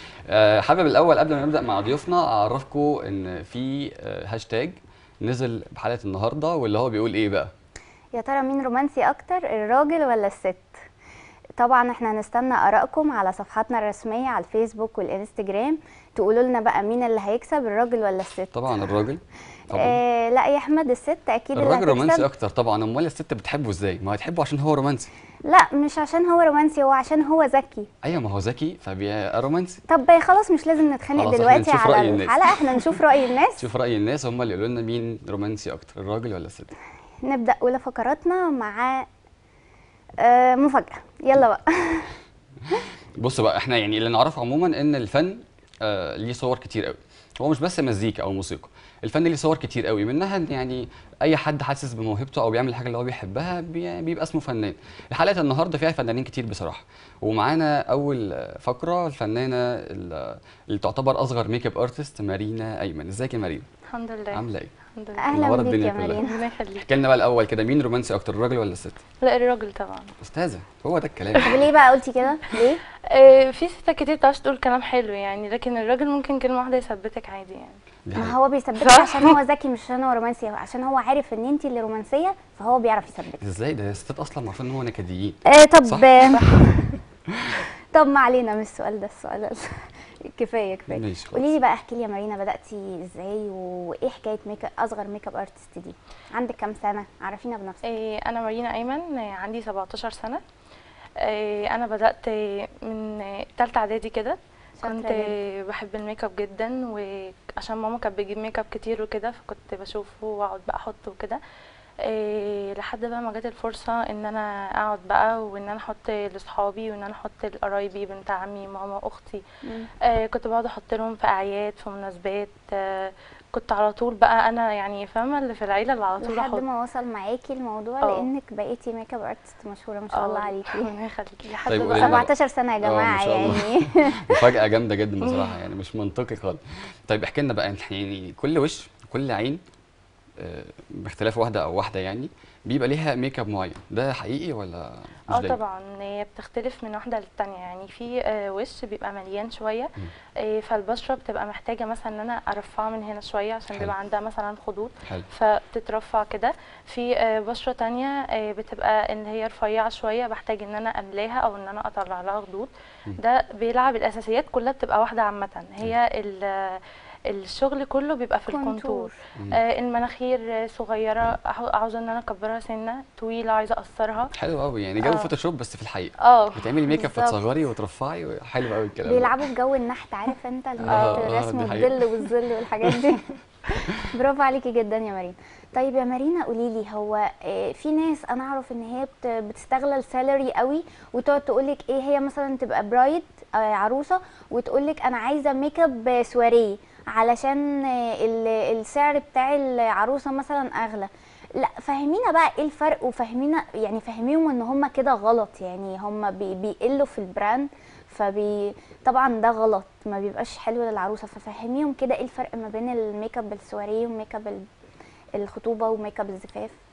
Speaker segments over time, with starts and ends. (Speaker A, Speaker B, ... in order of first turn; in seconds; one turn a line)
Speaker A: 0.3-7.5
Speaker B: 8.1-10.8
Speaker B: 11.6-19.0
Speaker A: 18.5-20.0
Speaker B: 19.7-22.3
Speaker A: 21.5-25.1
Speaker B: 25.4-27.9
Speaker A: 28.0-29.8
Speaker B: 29.9-33.6
Speaker A: 31.1-36.7
Speaker B: 37.2-39.0
Speaker B: 40.2-42.2
Speaker A: 42.7-63.7
Speaker C: 63.9-65.6
Speaker A: 64.3-64.7
Speaker B: 65.2-66.4
Speaker A: 65.3-66.2
Speaker C: 66.1-66.9
Speaker A: 66.8-69.0
Speaker C: 69.2-70.1
Speaker A: 70.2-71.7
Speaker B: 71.4-72.8
Speaker C: 73.1-77.8
Speaker A: 78.1-78.4
Speaker B: 78.2-83.4
Speaker C: 78.8-79.4
Speaker A: 83.4-87.7
Speaker B: 85.5-86.5
Speaker B: 87.9-97.8
Speaker A: 90.9-91.5
Speaker C: 97.8-100.4
Speaker C: 101.2-111.4
Speaker B: 104.8-105.3
Speaker C: 112.0-119.4
Speaker C: 120.0-126.6
Speaker B: 126.2-130.9
Speaker C: 128.0-128.3
Speaker C: 130.1-132.3
Speaker B: 131.7-134.6
Speaker A: 131.7-132.3
Speaker A: 132.8-139.6
Speaker A: 140.4-145.6
Speaker C: 145.3-174.3
Speaker B: 168.5-169.2
Speaker A: 174.3-179.5
Speaker C: 175.0-175.3
Speaker C: 176.2-176.8
Speaker B: 176.9-177.4
Speaker B: 179.0-214.7
Speaker C: 180.8-181.3
Speaker A: 180.9-183.1
Speaker B: 215.4-216.7